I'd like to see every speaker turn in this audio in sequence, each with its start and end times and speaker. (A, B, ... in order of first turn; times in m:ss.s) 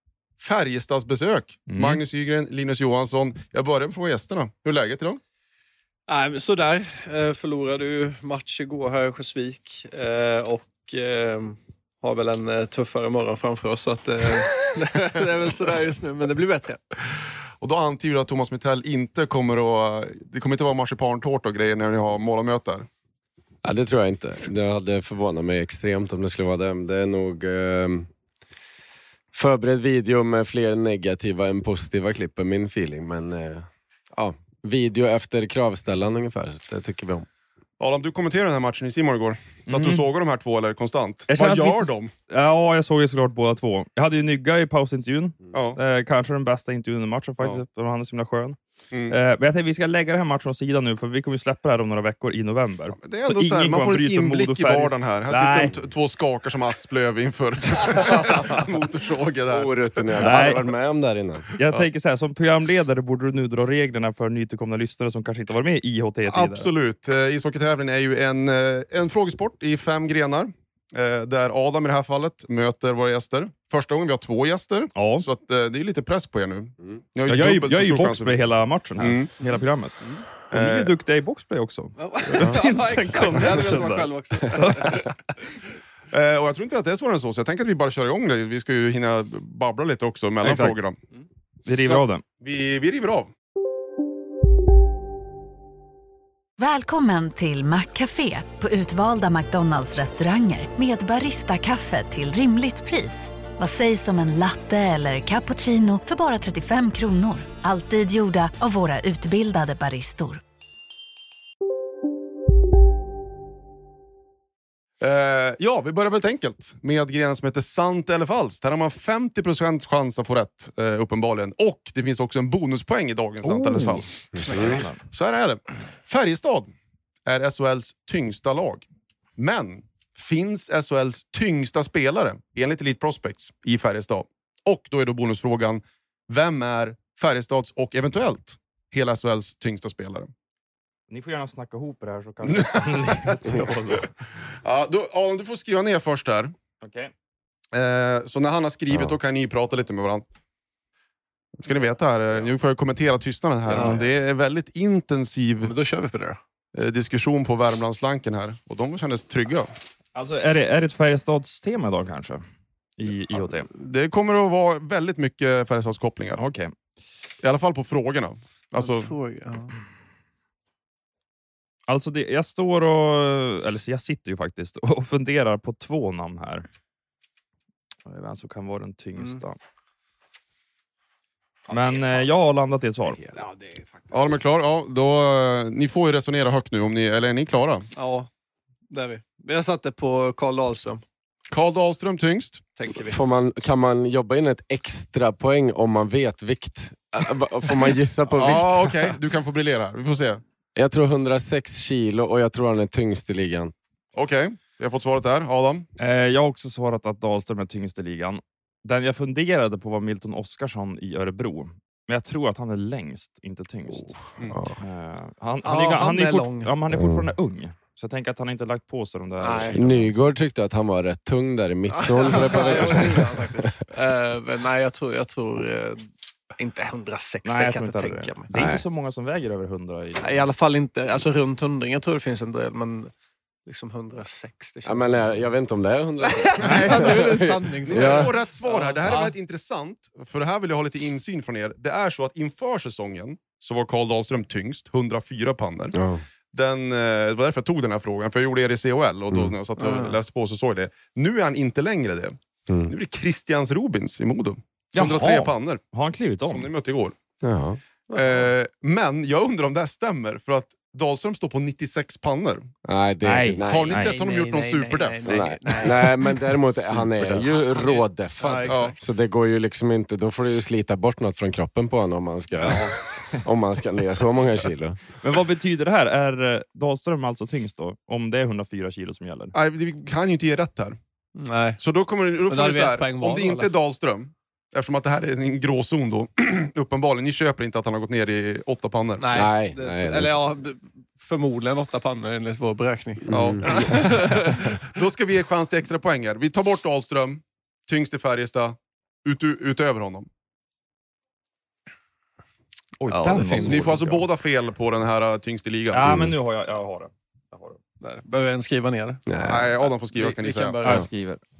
0:00.4-0:05.2 A
0:01.7-0:02.0 B
0:06.1-0:16.8 C
0:17.6-0:22.9 A
0:23.6-0:28.1 D
0:29.3-0:37.3 D
0:37.8-0:42.1 A
0:39.7-0:40.0 B
0:41.3-0:48.6 B
0:45.5-0:45.8 A
0:48.9-0:49.2 A
0:49.1-0:55.7 B
0:53.0-1:00.4 A
0:59.5-1:01.5 D
1:00.2-1:00.6 B
1:01.6-1:06.7 B
1:06.3-1:18.4 A
1:15.0-1:15.2 B
1:17.3-1:25.1 B
1:19.0-1:19.3 A
1:20.5-1:20.9 A
1:22.0-1:25.1 C
1:26.1-1:31.0 A
1:30.4-1:30.8 B
1:31.6-1:32.2 B
1:31.8-1:33.3 A
1:36.6-1:50.4 E
1:55.0-2:06.7 A
2:03.4-2:05.0 B
2:04.3-2:04.8 D
2:07.2-2:08.8 A
2:09.4-2:20.3 A
2:21.1-2:24.1 B
2:22.4-2:23.8 A
2:24.6-2:26.5 A
2:26.8-2:27.1 B
2:27.7-2:30.2 A
2:31.6-2:35.7 A
2:33.7-2:34.0 C
2:35.6-2:36.4 C
2:36.7-2:39.7 A
2:40.1-2:42.4 B
2:43.0-2:43.7 B
2:43.3-2:46.4 A
2:46.4-2:46.7 B
2:47.4-2:49.1 A
2:48.8-2:49.7 C
2:51.9-2:56.6 B
2:58.0-2:59.6 B
2:59.2-2:59.4 C
3:01.7-3:02.3 C
3:01.7-3:03.2 B
3:03.1-3:04.4 C
3:04.1-3:07.9 A
3:07.9-3:08.3 C
3:08.9-3:11.0 C
3:11.5-3:12.6 A
3:12.8-3:13.2 C
3:13.1-3:19.1 D
3:18.3-3:20.4 A
3:20.8-3:23.7 D
3:24.1-3:25.9 A
3:26.0-3:34.2 B
3:34.5-3:34.8 D
3:34.8-3:40.2 B
3:35.6-3:36.7 C
3:36.9-3:37.3 D
3:39.4-3:39.8 C
3:39.7-3:43.7 D
3:41.9-3:46.0 C
3:46.6-3:48.5 C
3:47.4-3:50.5 B
3:48.5-3:48.8 D
3:50.2-3:53.1 C
3:53.6-3:55.4 C
3:54.8-3:58.3 D
3:56.2-3:59.3 C
3:56.6-4:06.0 A
4:05.9-4:06.2 D
4:06.5-4:15.8 A
4:09.8-4:10.2 C
4:12.7-4:12.9 D
4:14.9-4:16.7 B
4:16.5-4:17.1 A
4:17.4-4:17.8 D
4:18.1-4:18.4 C
4:18.1-4:22.7 A
4:22.8-4:24.0 D
4:23.2-4:24.1 B
4:23.6-4:25.3 A
4:24.0-4:29.0 C
4:25.2-4:35.0 D
4:28.7-4:28.9 A
4:35.2-4:39.5 B
4:39.5-4:41.0 A
4:41.4-4:41.8 C
4:41.8-4:49.4 A
4:42.5-4:43.7 C
4:49.2-4:54.8 C
4:49.3-4:50.4 D
4:53.2-4:54.1 D
4:53.3-4:54.3 A
4:54.8-5:00.3 A
5:03.0-5:04.2 B
5:03.1-5:03.8 C
5:03.6-5:06.1 A
5:05.9-5:07.8 B
5:06.0-5:06.3 D
5:08.0-5:11.1 C
5:09.3-5:09.7 D
5:09.4-5:10.8 A
5:10.8-5:11.4 B